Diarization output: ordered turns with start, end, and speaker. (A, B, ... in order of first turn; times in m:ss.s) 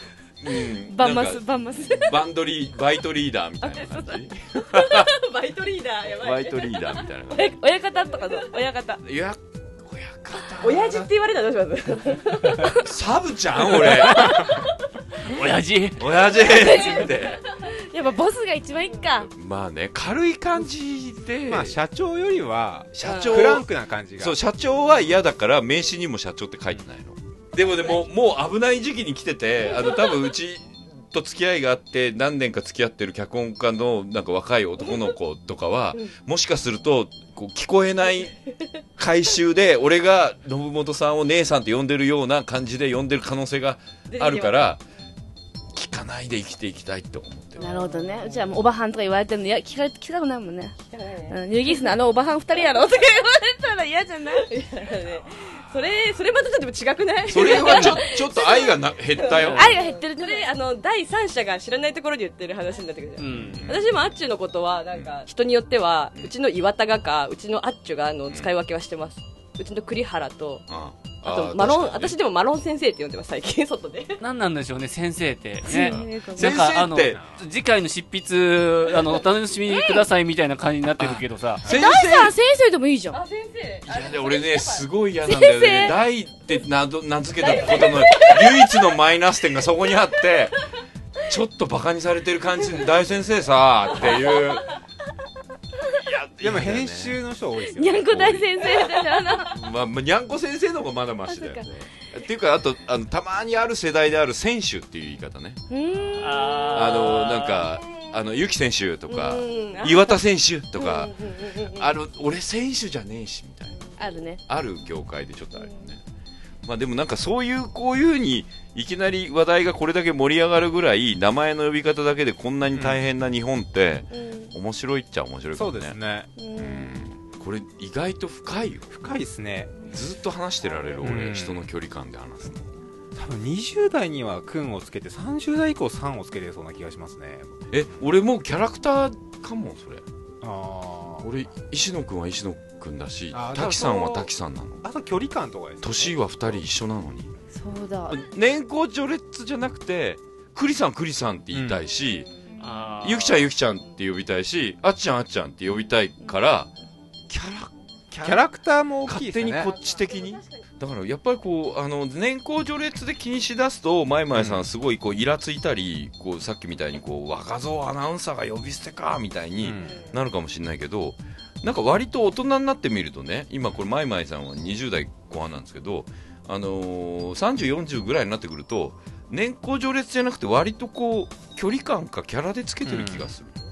0:00.4-0:05.1 A
0:00.6-0:02.2 B
0:03.6-0:04.2 C
0:05.0-0:07.5 C
0:06.2-0:07.5 A
0:07.3-0:09.0 B
0:08.1-0:08.4 C
0:09.0-0:11.1 A
0:10.6-0:12.8 C
0:12.8-0:14.5 A
0:14.0-0:14.5 D
0:15.2-0:16.1 D
0:16.0-0:17.4 A
0:16.4-0:19.3 B
0:16.6-0:17.1 C
0:19.3-0:21.8 A
0:21.5-0:24.4 E
0:22.9-0:38.4 A
0:23.0-0:23.6 C
0:29.8-0:30.0 C
0:39.0-0:44.8 A
0:44.1-0:44.8 C
0:45.7-0:47.7 A
0:47.6-0:48.6 C
0:47.6-0:50.8 B
0:50.9-0:51.9 C
0:51.3-0:54.5 B
0:54.4-1:10.7 C
0:57.3-0:59.7 A
0:57.4-0:58.7 B
0:57.7-0:57.9 D
0:59.3-0:59.6 D
0:59.5-1:00.5 B
1:03.2-1:03.7 D
1:03.3-1:03.9 A
1:10.7-1:12.2 A
1:11.2-1:14.2 C
1:14.2-1:21.7 D
1:15.6-1:16.7 B
1:15.8-1:17.3 A
1:19.7-1:20.0 B
1:21.0-1:22.3 A
1:21.6-1:23.2 B
1:23.1-1:24.9 C
1:23.9-1:30.6 A
1:25.2-1:26.0 B
1:27.4-1:28.4 C
1:27.8-1:28.6 B
1:31.3-1:34.8 A
1:36.0-1:37.2 A
1:36.4-1:38.5 E
1:37.6-1:39.6 B
1:39.4-1:45.6 A
1:41.3-1:41.7 B
1:45.7-1:47.0 B
1:46.2-1:47.7 D
1:46.7-1:53.8 A
1:49.1-1:50.2 C
1:50.8-1:51.9 C
1:54.0-1:54.4 B
1:54.5-1:56.0 A
1:56.6-2:06.0 A
2:02.8-2:03.0 E
2:04.1-2:04.5 B
2:05.5-2:06.3 E
2:06.4-2:06.9 B
2:06.6-2:08.9 A
2:08.9-2:09.7 E
2:09.9-2:12.7 A
2:11.0-2:11.6 E
2:13.2-2:17.7 E
2:17.7-2:20.0 A
2:20.4-2:21.3 E
2:21.2-2:24.8 A
2:23.3-2:24.3 E
2:24.8-2:26.6 E
2:25.8-2:27.3 A
2:27.5-2:28.2 B
2:28.1-2:32.3 A
2:31.5-2:31.8 E
2:32.0-2:32.6 C
2:32.6-2:33.5 D
2:33.0-2:36.7 A
2:37.3-2:38.5 A
2:38.2-2:39.7 E
2:39.1-3:03.6 A
2:39.6-2:40.6 C
2:44.4-2:44.6 E
2:49.6-2:50.0 E
3:02.9-3:03.3 E